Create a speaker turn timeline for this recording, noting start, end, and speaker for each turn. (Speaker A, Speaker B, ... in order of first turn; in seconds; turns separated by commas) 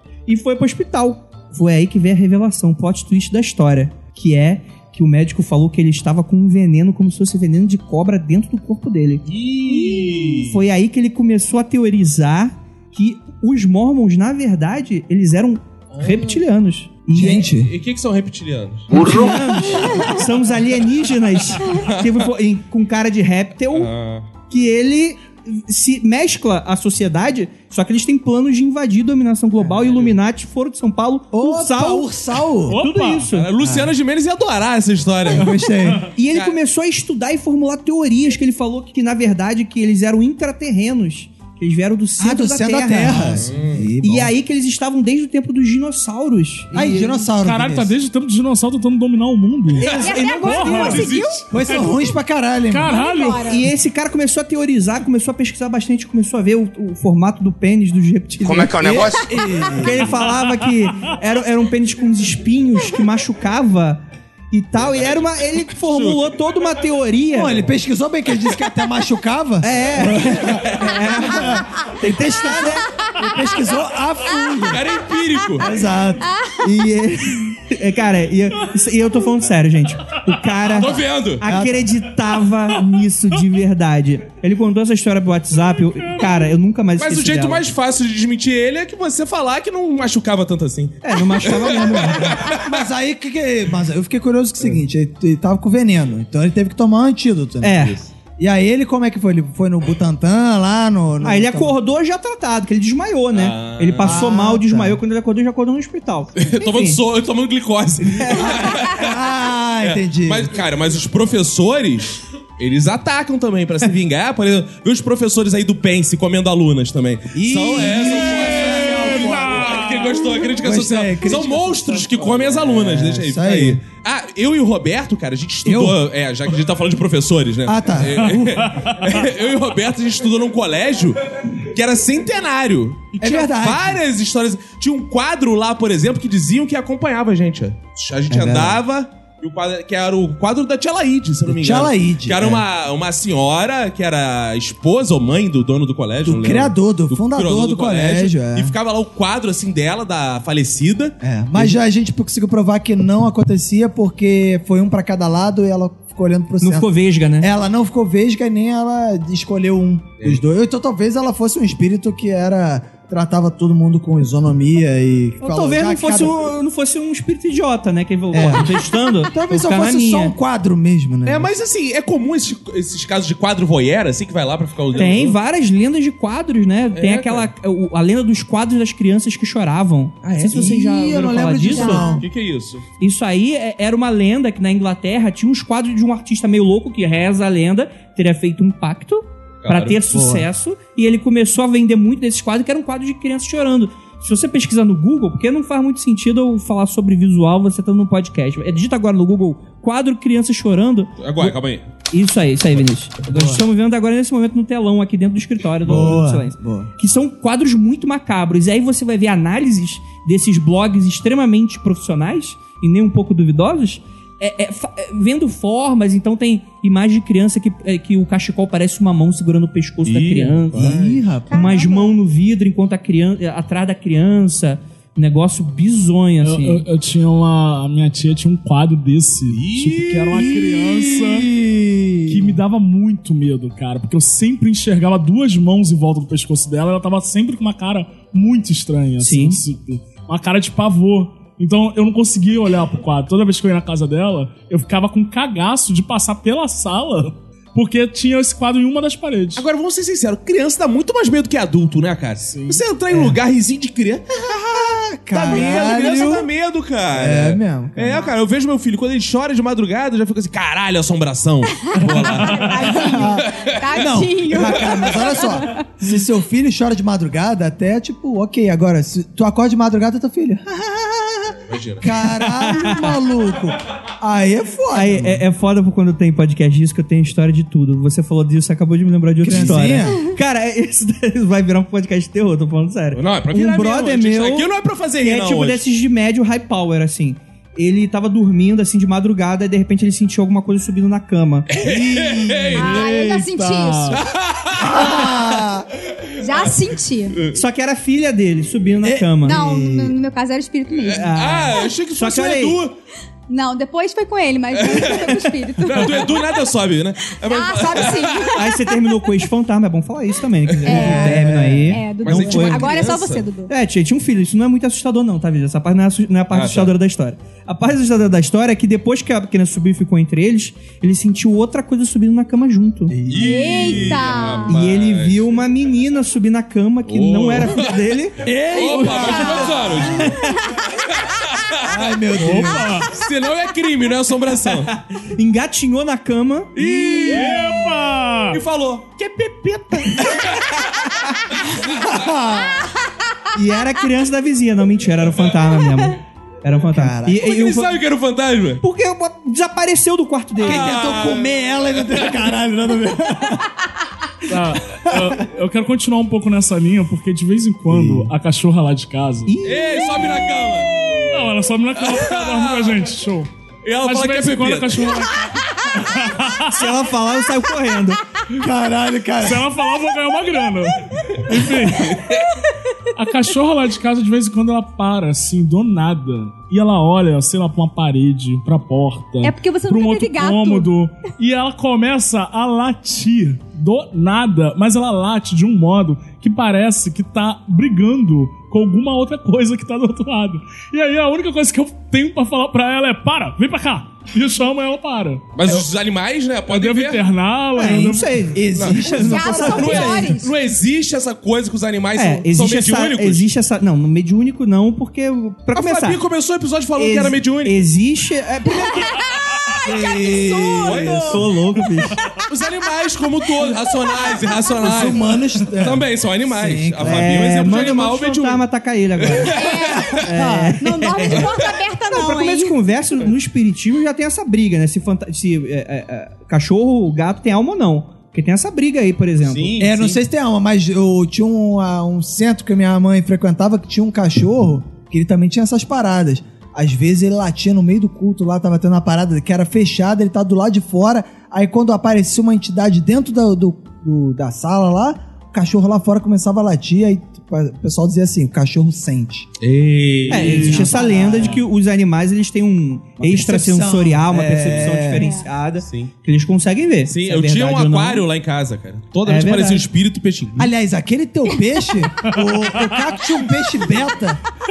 Speaker A: 0.3-17.4, Speaker B: 9.2-10.6, Speaker B: 15.9-16.4, Speaker C: 17.1-17.7, Speaker B: 17.6-18.9, Speaker A: 18.9-23.9, Speaker B: 21.7-22.3, Speaker B: 23.7-24.3, Speaker A: 24.5-32.1, Speaker C: 31.3-32.8, Speaker D: 32.7-33.3, Speaker A: 32.7-33.5, Speaker B: 33.3-35.5, Speaker C: 33.6-33.9, Speaker C: 35.3-36.0, Speaker A: 36.1-43.4, Speaker C: 42.2-44.3, Speaker B: 43.4-43.9, Speaker A: 44.0-47.2, Speaker C: 46.7-47.9, Speaker D: 47.4-51.1, Speaker A: 49.8-51.3, Speaker E: 49.9-51.4, Speaker B: 50.9-51.4, Speaker C: 51.5-52.9, Speaker D: 52.7-53.5, Speaker E: 52.8-53.6, Speaker A: 53.4-59.0, Speaker C: 58.5-60.2, Speaker A: 59.8-67.6, Speaker B: 64.9-66.3, Speaker C: 67.3-74.8, Speaker A: 69.6-72.8, Speaker B: 74.7-75.7, Speaker C: 75.6-76.3, Speaker E: 76.2-76.6, Speaker A: 76.6-87.6, Speaker B: 80.7-81.4, Speaker C: 81.4-81.9, Speaker B: 87.0-92.6, Speaker A: 91.0-92.4, Speaker C: 92.0-101.7, Speaker A: 97.6-98.0, Speaker A: 101.2-107.0, Speaker B: 103.3-104.2, Speaker C: 104.0-105.0, Speaker B: 106.3-109.2, Speaker A: 108.0-108.5, Speaker C: 108.4-110.5, Speaker B: 109.8-131.2, Speaker C: 117.3-119.7, Speaker D: 118.7-120.3, Speaker C: 120.6-123.8, Speaker C: 125.6-126.0, Speaker C: 127.6-128.6, Speaker B: 131.7-151.7, Speaker C: 133.2-134.0, Speaker C: 138.3-138.8, Speaker C: 141.5-142.6, Speaker C: 146.2-148.7, Speaker C: 151.2-166.5, Speaker A: 156.6-157.5, Speaker A: 165.4-170.3, Speaker C: 168.3-171.5, Speaker B: 171.2-175.4, Speaker A: 174.9-182.1, Speaker B: 176.9-177.5, Speaker B: 180.2-180.6, Speaker C: 180.5-182.2, Speaker E: 181.7-182.2, Speaker B: 182.2-182.8, Speaker A: 183.0-201.5, Speaker B: 189.6-190.0, Speaker C: 190.1-190.5, Speaker B: 201.2-201.9, Speaker A: 202.1-220.9, Speaker C: 203.3-203.6, Speaker C: 205.8-206.9, Speaker B: 220.0-221.2, Speaker C: 220.7-221.7, Speaker E: 221.5-222.1, Speaker A: 221.5-226.8, Speaker D: 226.4-231.5, Speaker B: 229.5-230.3, Speaker C: 230.3-232.6, Speaker D: 232.3-249.6, Speaker A: 239.2-239.6, Speaker B: 249.6-254.2, Speaker D: 252.5-252.8, Speaker C: 253.1-253.4, Speaker C: 254.4-256.5, Speaker B: 255.3-264.0, Speaker C: 257.1-258.3, Speaker E: 261.8-265.8, Speaker C: 262.9-275.4, Speaker B: 271.6-272.0, Speaker A: 272.2-273.1, Speaker A: 274.9-284.7, Speaker C: 279.4-280.2, Speaker B: 283.1-285.8, Speaker A: 285.2-291.7, Speaker B: 291.7-292.9, Speaker C: 291.8-293.0, Speaker E: 292.7-294.2, Speaker D: 292.7-294.2, Speaker B: 294.1-295.1, Speaker C: 294.8-295.9, Speaker B: 296.2-296.7, Speaker E: 296.4-297.4, Speaker A: 297.5-299.6, Speaker C: 299.0-300.1, Speaker E: 299.4-301.3, Speaker B: 300.9-302.9, Speaker A: 301.1-302.8, Speaker E: 303.5-306.6, Speaker B: 304.7-308.6, Speaker E: 307.4-308.8, Speaker A: 308.6-313.0, Speaker B: 310.7-311.1, Speaker E: 310.8-313.7, Speaker C: 310.9-312.0, Speaker B: 312.2-313.4, Speaker A: 313.7-323.1, Speaker B: 316.5-316.9, Speaker C: 323.1-324.2, Speaker B: 323.3-325.6, Speaker E: 323.4-324.8, Speaker A: 324.7-328.4, Speaker B: 327.1-330.3, Speaker C: 328.4-330.3, Speaker E: 328.9-329.7, Speaker B: 331.0-332.1, Speaker C: 331.8-333.0, Speaker D: 332.4-333.1, Speaker B: 333.1-335.0, Speaker A: 335.2-336.7, Speaker B: 336.7-337.7, Speaker C: 337.1-337.4, Speaker D: 337.2-338.6, Speaker B: 338.5-341.2, Speaker C: 341.8-342.9, Speaker A: 343.5-348.0, Speaker C: 346.9-347.4, Speaker B: 347.3-348.8, Speaker A: 348.8-350.9, Speaker C: 350.6-353.7, Speaker B: 350.6-351.5, Speaker D: 354.5-359.6, Speaker C: 355.0-355.4, Speaker C: 357.9-358.3, Speaker A: 359.4-360.4, Speaker B: 359.6-361.3, Speaker D: 361.3-363.5, Speaker B: 362.0-363.0, Speaker B: 363.8-365.2, Speaker D: 364.0-366.8, Speaker A: 366.7-368.2, Speaker C: 368.5-369.7, Speaker D: 369.4-372.2, Speaker B: 371.9-372.4, Speaker D: 373.1-395.9, Speaker E: 379.4-380.9, Speaker B: 395.6-397.2, Speaker D: 396.7-398.4, Speaker A: 397.8-400.3, Speaker C: 397.8-400.2, Speaker B: 398.7-403.5, Speaker E: 399.1-400.5, Speaker A: 402.1-406.2, Speaker B: 405.7-407.8, Speaker A: 406.9-409.1, Speaker C: 409.8-411.4, Speaker B: 410.8-411.3, Speaker A: 411.2-412.1, Speaker B: 412.5-415.2, Speaker C: 414.8-417.4, Speaker B: 415.8-418.6, Speaker A: 417.0-419.6, Speaker B: 419.2-420.1, Speaker E: 419.5-420.3, Speaker C: 420.0-420.8, Speaker A: 420.1-421.4, Speaker E: 420.8-422.8, Speaker A: 422.1-430.1, Speaker B: 429.4-430.1, Speaker C: 429.8-449.5, Speaker B: 449.6-451.6, Speaker A: 450.3-458.2, Speaker C: 450.3-451.6, Speaker C: 453.2-455.3, Speaker E: 455.2-455.4, Speaker B: 455.8-456.1, Speaker B: 457.1-460.7, Speaker A: 459.2-459.9, Speaker C: 460.6-464.4